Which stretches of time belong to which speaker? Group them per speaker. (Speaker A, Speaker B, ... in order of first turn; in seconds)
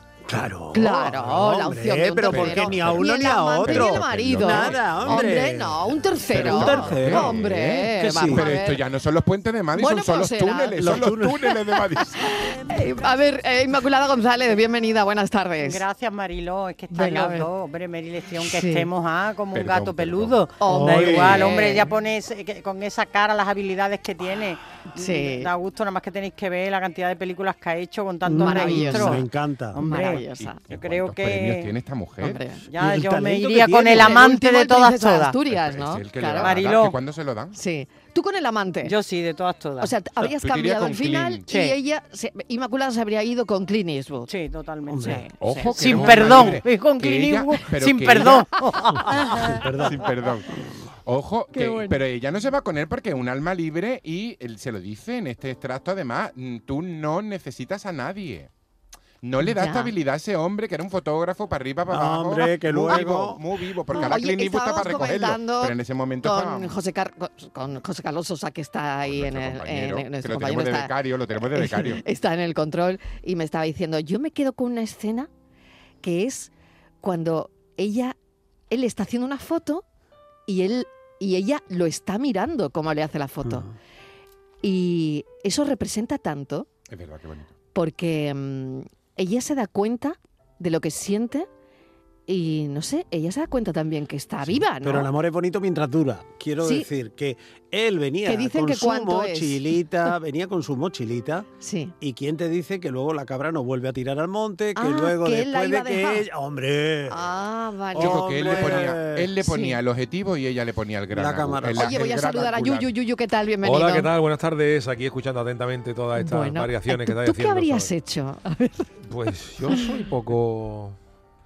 Speaker A: 0.3-7.4, 8.0-8.5, 10.8-11.5, 20.7-21.5, 28.2-29.8, 32.7-34.3, 44.9-45.2, 46.2-46.4, 48.9-50.1, 61.9-63.4, 83.4-83.7, 94.7-101.5, 102.0-107.2, 107.9-109.3, 111.1-112.8
Speaker B: 0.7-8.8, 9.7-11.0, 12.2-15.8, 16.9-17.5, 18.4-18.9, 20.6-21.8, 24.9-25.5, 28.4-29.2, 29.8-30.6, 32.2-32.6, 34.0-36.5, 37.5-38.9, 39.8-44.3, 45.0-46.3, 51.6-51.9, 59.4-59.9, 63.9-70.9, 71.5-75.3, 76.0-76.5, 77.0-78.1, 78.7-79.8, 80.5-83.7, 84.6-86.7, 87.7-91.5, 92.3-95.1, 96.6-96.9, 98.2-99.7, 101.6-101.9, 104.8-106.2, 107.1-108.9, 109.4-109.8, 111.7-114.1, 116.2-118.9
Speaker C: 2.3-5.4, 6.3-12.4, 19.5-20.4, 30.4-32.4, 35.5-37.5, 40.2-41.4, 45.4-48.5, 49.8-50.5, 51.0-58.5, 59.2-66.7, 69.0-72.0, 86.9-87.5, 107.9-112.9
Speaker D: 15.6-31.7, 32.7-35.3, 36.4-37.0, 38.8-39.9, 41.5-41.7, 44.3-49.5
Speaker E: 113.6-117.9, 119.0-121.0